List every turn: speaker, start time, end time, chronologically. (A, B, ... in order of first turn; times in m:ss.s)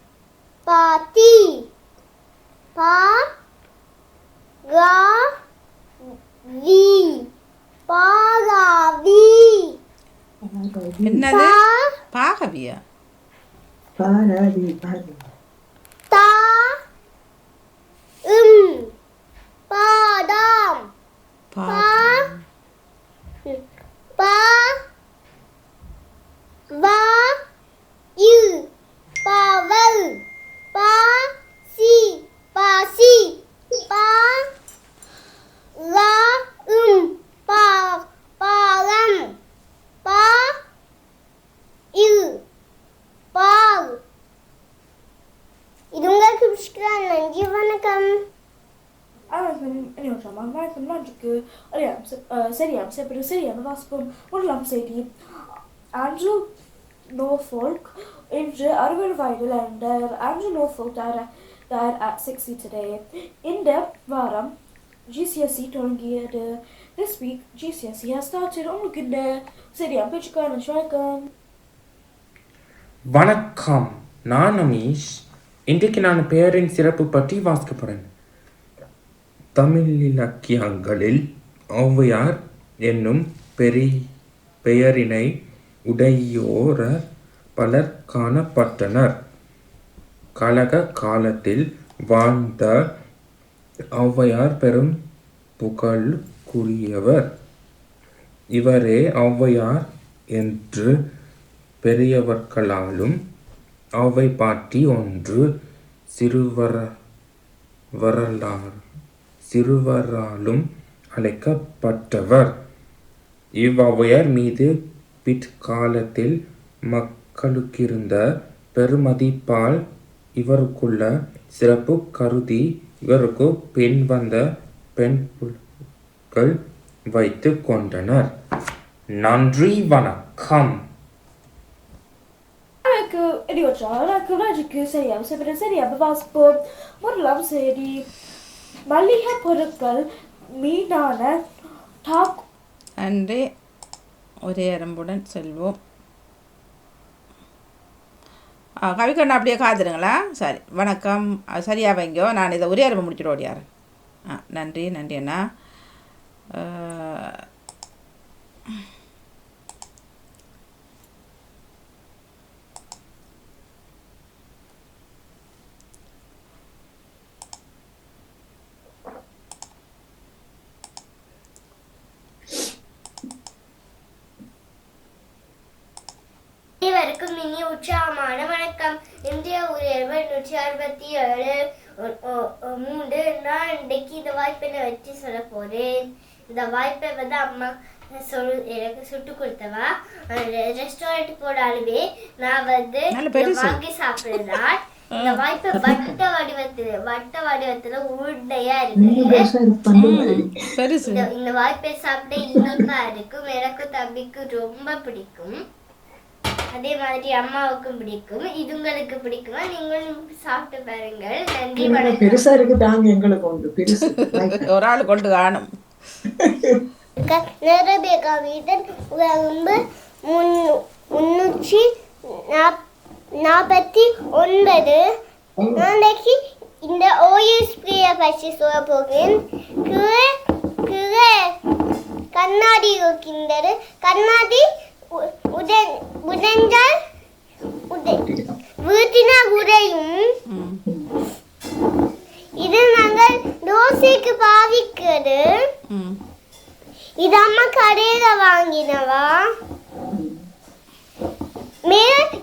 0:00.7-0:01.6 A
0:02.8-0:03.2 A
0:04.7-0:05.2 A
0:06.5-0:07.2 A
0:07.9-0:09.7 A
0:10.4-0:11.2 B
0:11.1-0:11.6 C
0:11.3-0:11.8 A
0:12.1-0:12.8 C
0:14.0-0:15.2 B
0:16.1-0:16.7 A
0:18.3-0:18.9 A
0:19.7-0:20.8 A
0:21.5-0:22.3 C
0:21.7-0:22.3 A
0:24.2-0:24.7 A
0:26.8-0:27.3 A
0:28.2-0:28.7 A
0:29.2-0:30.2 A
0:30.7-0:31.2 A
0:31.7-0:33.4 A
0:33.9-0:34.4 A
0:35.8-0:39.3 A
0:40.0-0:40.4 A
0:42.0-0:42.4 A
0:43.4-0:44.0 A
0:45.9-0:48.1 A
0:49.3-0:55.1 D
0:56.0-0:56.4 D
0:57.1-1:04.5 D
1:05.1-1:11.3 D
1:13.1-1:18.1 E
1:19.6-1:21.2 E
1:21.8-1:23.9 E
1:24.6-1:25.3 E
1:25.9-1:26.9 E
1:27.6-1:29.1 E
1:30.4-1:32.7 E
1:34.0-1:34.9 E
1:35.6-1:37.3 E
1:38.5-1:40.9 E
1:41.8-1:43.2 E
1:44.0-1:45.4 E
1:46.1-1:46.8 E
1:48.0-1:48.8 E
1:49.4-1:50.6 E
1:51.2-1:52.5 E
1:53.6-1:54.7 E
1:55.2-1:56.4 E
1:56.9-1:58.2 E
1:58.7-1:59.8 E
2:00.4-2:04.4 E
2:05.0-2:05.6 E
2:07.1-2:08.3 E
2:09.2-2:10.8 E
2:12.9-2:18.1 D
2:18.9-2:20.0 D
2:20.6-2:21.4 D
2:22.0-2:22.4 D
2:23.0-2:23.4 C
2:24.4-2:25.8 C
2:28.8-2:33.6 C
2:34.3-2:35.4 C
2:36.6-2:37.3 C
2:56.8-3:05.9 A
3:06.5-3:19.5 A
3:13.1-3:13.8 C
3:15.8-3:16.1 B
3:19.0-3:20.6 B
3:20.0-3:21.2 C
3:21.0-3:25.6 A
3:26.7-3:32.4 A
3:31.8-3:34.7 B
3:34.3-3:35.7 C
3:36.4-3:36.8 B
3:37.3-3:39.8 A
3:40.3-3:41.8 A
3:43.4-3:45.0 A
3:45.8-3:50.2 A
3:50.9-3:51.4 A
3:52.3-3:54.6 A
3:55.2-3:56.9 A
3:58.3-3:58.5 B
3:58.8-4:00.2 A
4:00.5-4:00.8 C
4:02.6-4:05.4 A
4:05.9-4:06.2 C
4:07.2-4:09.4 A
4:10.1-4:10.4 B
4:11.9-4:12.2 A